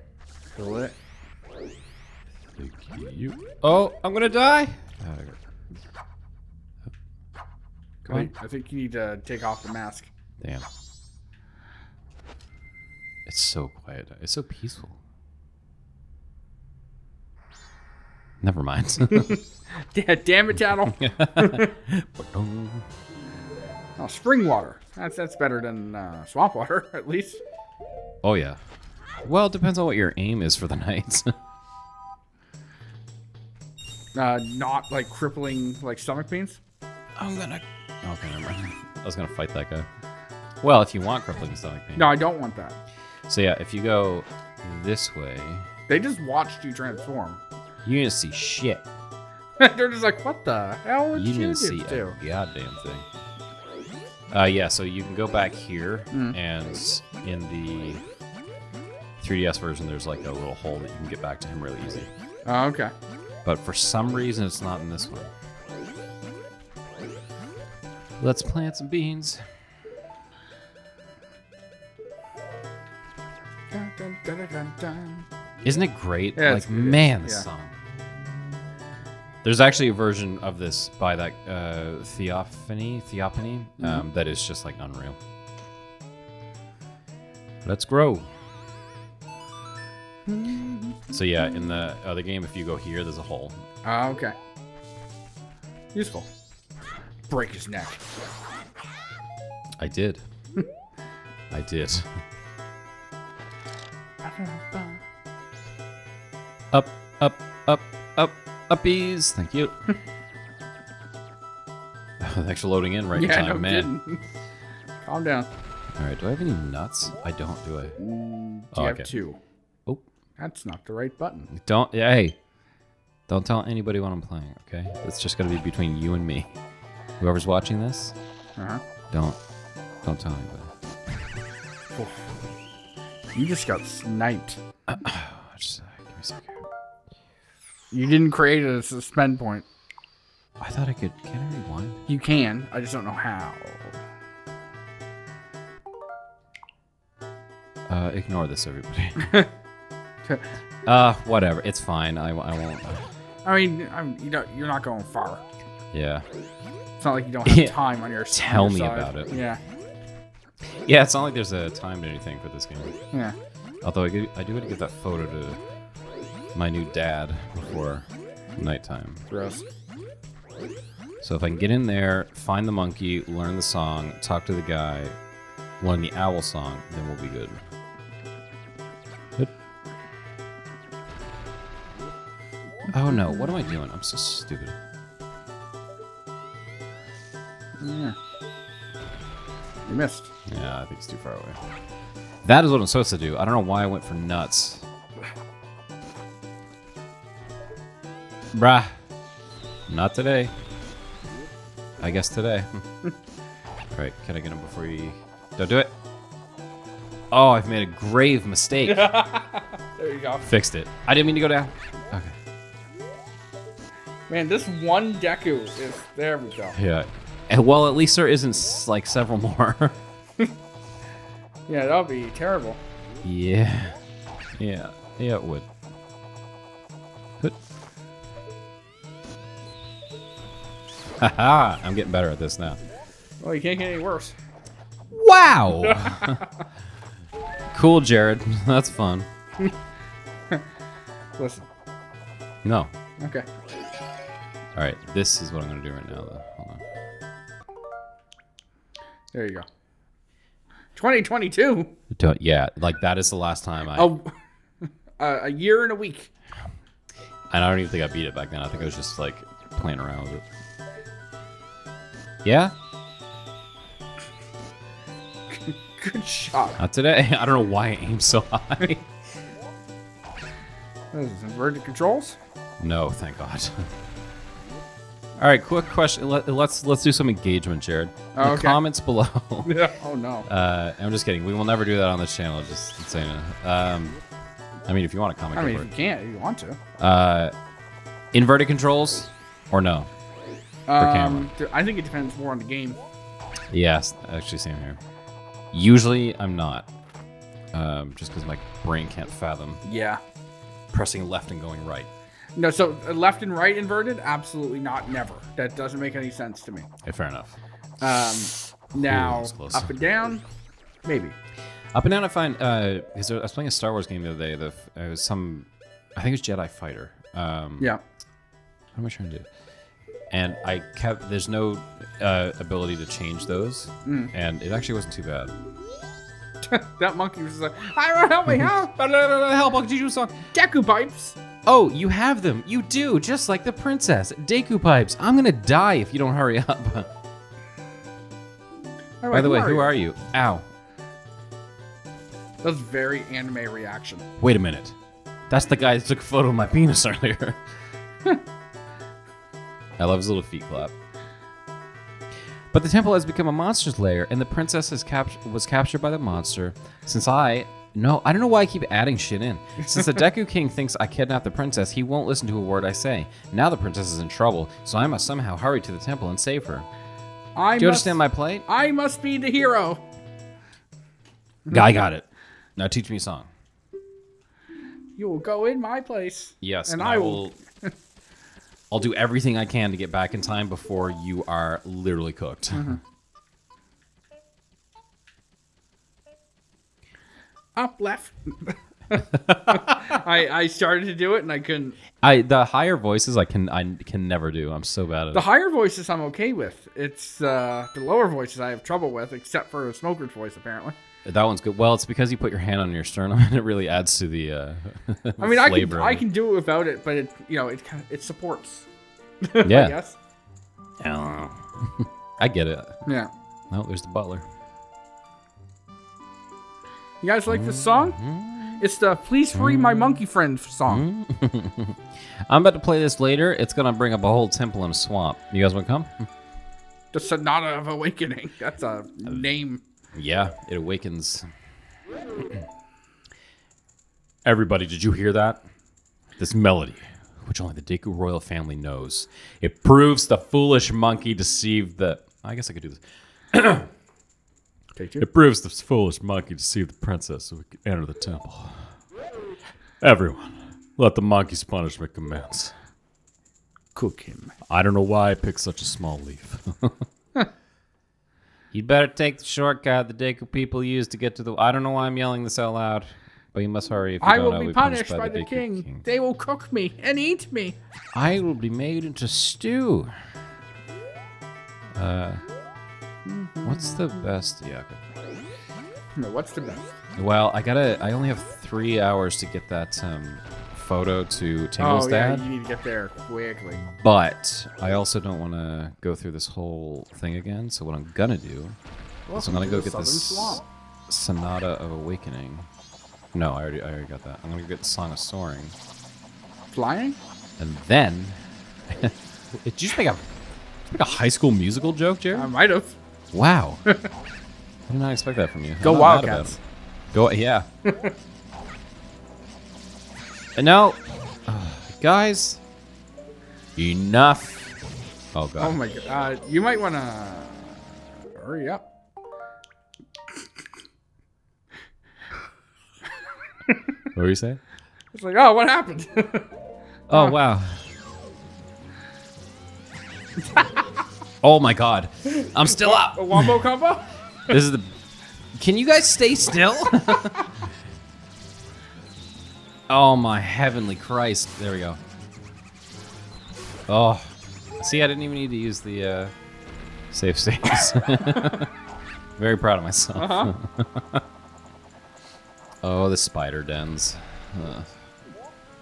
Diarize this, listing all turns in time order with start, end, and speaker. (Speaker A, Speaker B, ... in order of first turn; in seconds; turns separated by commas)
Speaker A: 0.6-0.9, Speaker B: 2.6-5.4, Speaker A: 8.1-10.1, Speaker B: 10.4-10.7, Speaker B: 13.3-15.0, Speaker B: 18.4-19.4, Speaker A: 19.1-21.7, Speaker B: 20.7-22.9, Speaker A: 24.0-27.4, Speaker B: 28.2-28.6, Speaker B: 29.2-31.3, Speaker A: 34.2-36.6, Speaker B: 37.2-39.9, Speaker B: 40.6-42.1, Speaker A: 42.0-42.8, Speaker B: 43.3-45.7, Speaker A: 45.9-47.4, Speaker B: 47.8-48.9, Speaker A: 49.6-52.2, Speaker B: 51.1-53.1, Speaker B: 54.3-58.0, Speaker A: 56.1-56.4, Speaker B: 59.2-62.1, Speaker A: 62.5-62.9, Speaker B: 63.5-65.3, Speaker B: 68.2-69.4, Speaker A: 73.7-75.3, Speaker B: 75.6-77.8, Speaker A: 76.3-77.5, Speaker B: 79.4-85.2, Speaker A: 83.8-84.0, Speaker B: 87.6-88.3, Speaker A: 90.3-91.1, Speaker B: 91.1-93.6, Speaker A: 93.8-94.3, Speaker A: 95.9-96.3, Speaker A: 97.3-98.0, Speaker B: 99.8-100.2, Speaker B: 101.5-102.1, Speaker A: 104.2-105.0, Speaker B: 106.7-109.7, Speaker B: 112.2-113.9, Speaker A: 113.1-114.2, Speaker A: 115.0-115.5, Speaker B: 116.0-118.0, Speaker A: 118.0-119.4, Speaker B: 118.7-119.1, Speaker A: 120.4-121.5, Speaker B: 121.5-122.4, Speaker B: 123.3-126.6, Speaker B: 127.2-128.2, Speaker A: 128.6-128.8, Speaker B: 129.1-129.4, Speaker B: 130.0-130.7, Speaker A: 132.0-132.3, Speaker A: 133.3-134.6, Speaker B: 134.9-136.6, Speaker A: 137.9-139.7, Speaker B: 140.6-142.0, Speaker A: 142.1-144.0, Speaker B: 147.9-149.3, Speaker B: 150.9-153.1, Speaker A: 153.4-155.4, Speaker B: 155.9-156.3, Speaker A: 157.0-159.6, Speaker B: 157.5-159.4, Speaker B: 160.6-162.9, Speaker B: 163.8-165.6, Speaker B: 166.5-169.2, Speaker A: 169.3-169.7, Speaker B: 171.2-175.2, Speaker B: 175.8-177.6, Speaker B: 182.9-184.8, Speaker A: 183.1-183.7, Speaker A: 187.8-188.2, Speaker A: 189.9-190.3, Speaker B: 190.5-191.6, Speaker B: 192.4-194.9, Speaker B: 198.5-199.0, Speaker B: 199.9-200.5, Speaker B: 202.0-202.8, Speaker B: 203.9-205.9, Speaker B: 207.3-209.1, Speaker A: 208.8-210.5, Speaker B: 210.4-212.3, Speaker A: 214.3-216.8, Speaker B: 216.8-220.0, Speaker A: 221.7-222.8, Speaker B: 223.2-224.0, Speaker B: 224.6-225.7, Speaker B: 231.2-232.8, Speaker A: 233.4-234.4, Speaker B: 235.1-236.4, Speaker A: 235.9-236.5, Speaker B: 237.7-239.3, Speaker A: 241.4-241.7, Speaker B: 242.6-242.9, Speaker A: 243.2-243.5, Speaker B: 244.8-246.8, Speaker A: 249.3-249.7, Speaker A: 250.9-251.9, Speaker B: 252.1-254.1, Speaker A: 253.9-256.3, Speaker B: 257.5-260.4, Speaker B: 262.4-262.7, Speaker A: 265.5-266.8, Speaker B: 266.8-269.1, Speaker A: 271.1-272.4, Speaker B: 272.8-273.9, Speaker B: 275.4-279.8, Speaker A: 278.3-278.8, Speaker A: 279.6-280.5, Speaker B: 280.5-284.2, Speaker B: 284.9-285.9, Speaker A: 285.5-286.8, Speaker B: 287.0-287.5, Speaker B: 288.3-290.1, Speaker A: 290.9-293.0, Speaker B: 291.0-291.5, Speaker B: 293.7-295.0, Speaker B: 295.7-296.9, Speaker B: 297.7-299.8, Speaker A: 299.8-300.2, Speaker B: 300.9-302.1, Speaker A: 302.6-306.9, Speaker B: 307.0-307.6, Speaker A: 308.0-310.4, Speaker B: 308.9-309.9, Speaker A: 311.1-311.4, Speaker B: 311.9-317.9, Speaker B: 318.9-319.5, Speaker B: 320.3-325.5, Speaker A: 324.1-324.3, Speaker A: 326.7-328.9, Speaker B: 328.5-330.4, Speaker A: 330.5-331.4, Speaker B: 331.7-337.1, Speaker A: 339.2-339.9, Speaker B: 339.3-340.7, Speaker A: 342.6-344.2, Speaker B: 344.4-345.0, Speaker B: 345.5-347.6, Speaker B: 350.0-350.9, Speaker B: 352.7-366.9, Speaker A: 367.6-370.0, Speaker B: 367.8-368.7, Speaker B: 371.7-372.3, Speaker B: 372.8-373.5, Speaker A: 375.2-377.9, Speaker B: 376.6-377.6, Speaker B: 378.9-383.0, Speaker A: 382.7-383.0, Speaker A: 387.8-392.0, Speaker B: 389.5-389.8, Speaker B: 392.2-395.4, Speaker A: 395.3-401.0, Speaker B: 401.2-406.2, Speaker A: 405.4-408.9, Speaker A: 409.4-410.2, Speaker B: 409.6-410.0, Speaker B: 411.0-413.0, Speaker A: 413.1-413.3, Speaker B: 413.7-414.5, Speaker A: 417.2-418.2, Speaker B: 417.5-418.8, Speaker A: 418.8-421.1, Speaker B: 419.5-420.2, Speaker B: 420.9-426.3, Speaker A: 427.1-429.8, Speaker B: 430.1-431.5, Speaker B: 434.4-435.6, Speaker B: 436.4-443.0, Speaker B: 443.5-443.9, Speaker A: 445.0-445.3, Speaker B: 445.2-448.9, Speaker B: 450.0-452.8, Speaker A: 453.9-454.5, Speaker B: 454.7-457.1, Speaker B: 458.7-466.0, Speaker A: 464.2-467.8, Speaker B: 468.1-470.1, Speaker B: 471.9-472.4, Speaker A: 473.3-474.1, Speaker B: 473.6-475.0, Speaker A: 476.2-477.0, Speaker B: 477.2-482.4, Speaker A: 481.8-483.9, Speaker B: 484.0-488.8, Speaker A: 489.3-490.6, Speaker B: 489.4-492.7, Speaker B: 493.3-495.8, Speaker A: 496.7-497.2, Speaker B: 497.6-500.2, Speaker B: 500.9-502.5, Speaker A: 502.3-503.0, Speaker B: 503.3-503.8, Speaker B: 504.9-506.6, Speaker A: 505.8-506.6, Speaker B: 507.1-507.7, Speaker A: 507.9-508.1, Speaker B: 510.6-512.6, Speaker B: 513.8-514.7, Speaker B: 515.3-515.8, Speaker A: 515.6-517.5, Speaker A: 518.4-518.8, Speaker B: 524.1-524.6, Speaker A: 525.1-526.5, Speaker B: 527.1-527.9, Speaker B: 531.4-533.5, Speaker A: 532.4-534.6, Speaker B: 534.5-535.0, Speaker B: 535.6-537.4, Speaker B: 539.9-542.0, Speaker B: 543.9-546.3, Speaker B: 547.1-548.7, Speaker B: 549.4-551.2, Speaker A: 550.2-550.5, Speaker B: 552.8-554.9